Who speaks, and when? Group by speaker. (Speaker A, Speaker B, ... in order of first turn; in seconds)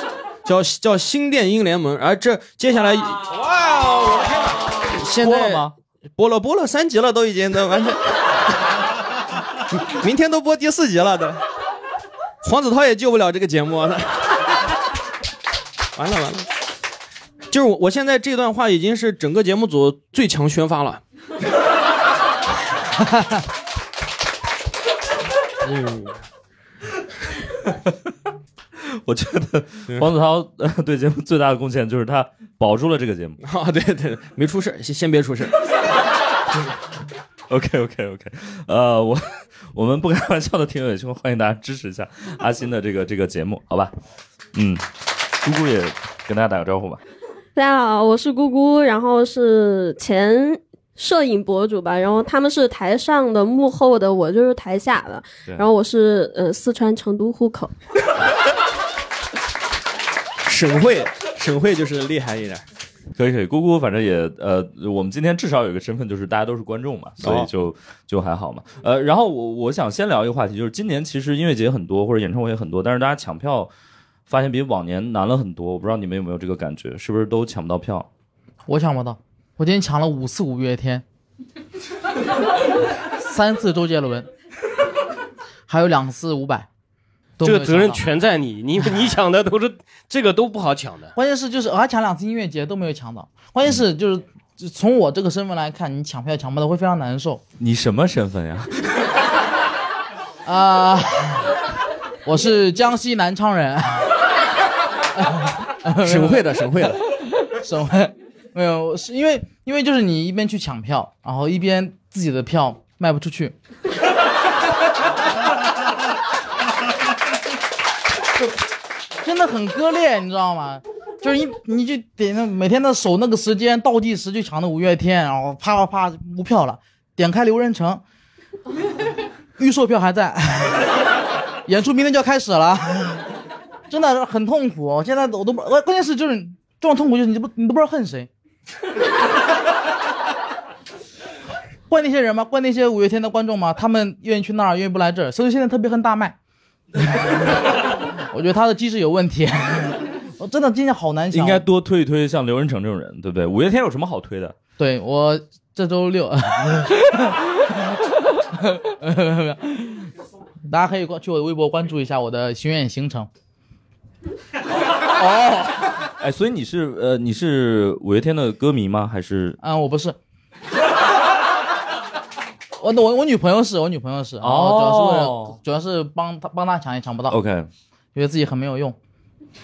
Speaker A: 0.4-8.1, 9.7-11.4, 12.4-14.3, 15.9-16.4, 17.5-21.0, 25.7-26.1, 33.4-35.5, 60.4-62.6, 67.2-67.5, 106.0-107.0
Speaker B: 5.2-5.7, 29.0-33.4, 37.5-43.9, 44.5-44.8, 45.4-47.0, 63.1-73.7, 74.3-78.1, 97.6-99.0, 151.3-154.5, 166.2-169.6, 174.4-175.6, 177.3-177.7
Speaker C: 47.5-57.7
Speaker D: 78.7-81.0, 83.1-84.3, 85.7-86.7, 87.4-88.0, 91.2-97.4, 100.4-101.5, 102.2-104.2, 105.1-106.7, 107.4-113.5, 119.2-128.0, 129.6-131.0, 131.7-133.3, 133.9-138.3, 141.9-146.3, 147.0-147.5, 148.3-151.7, 154.8-160.1, 160.7-163.3, 169.6-170.2, 172.8-177.4, 178.1-179.0
Speaker E: 87.4-91.1